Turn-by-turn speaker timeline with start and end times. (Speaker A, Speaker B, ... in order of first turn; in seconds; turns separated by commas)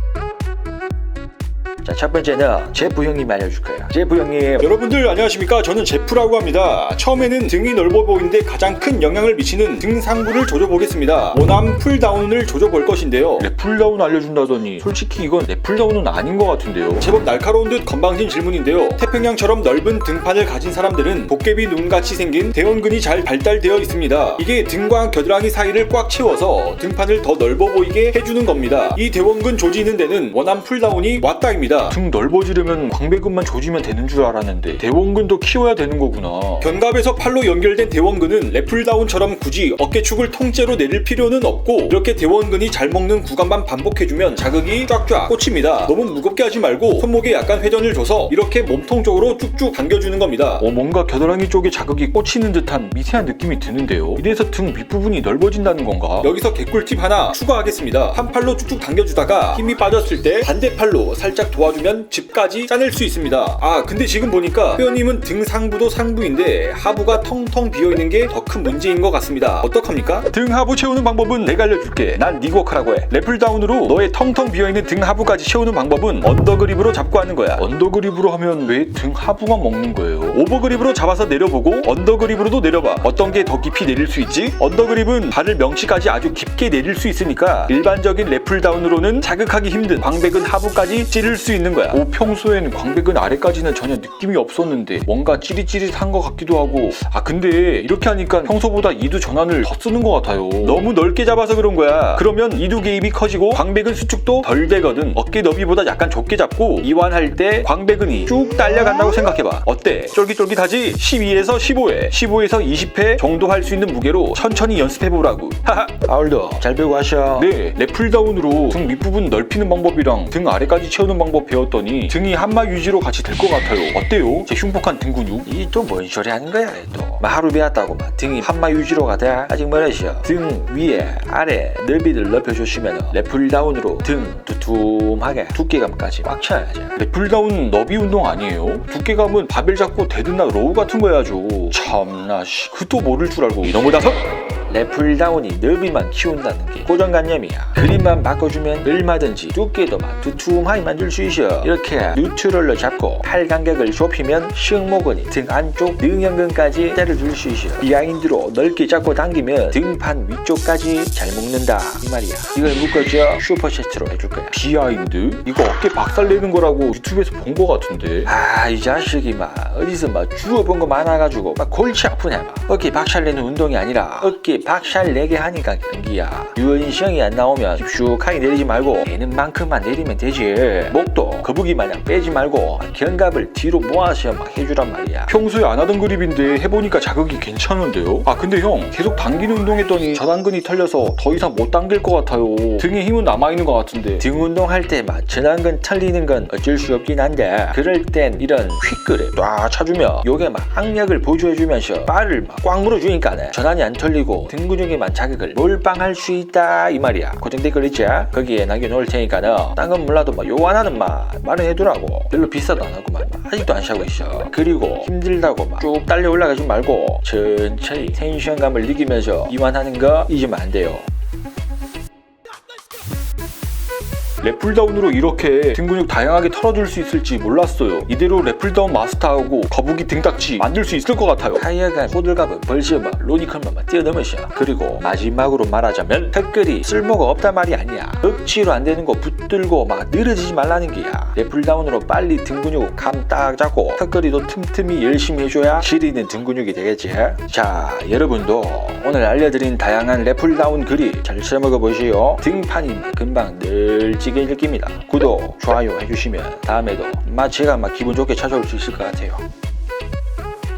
Speaker A: 1.8-4.7, Speaker B: 4.6-115.9, Speaker A: 115.9-117.5, Speaker B: 117.4-125.5, Speaker A: 125.5-137.0, Speaker B: 137.0-144.3, Speaker A: 144.7-164.6, Speaker B: 164.5-168.3, Speaker A: 168.2-185.3, Speaker B: 185.3-194.2, Speaker A: 194.2-221.1, Speaker B: 224.4-231.6, Speaker A: 231.5-259.4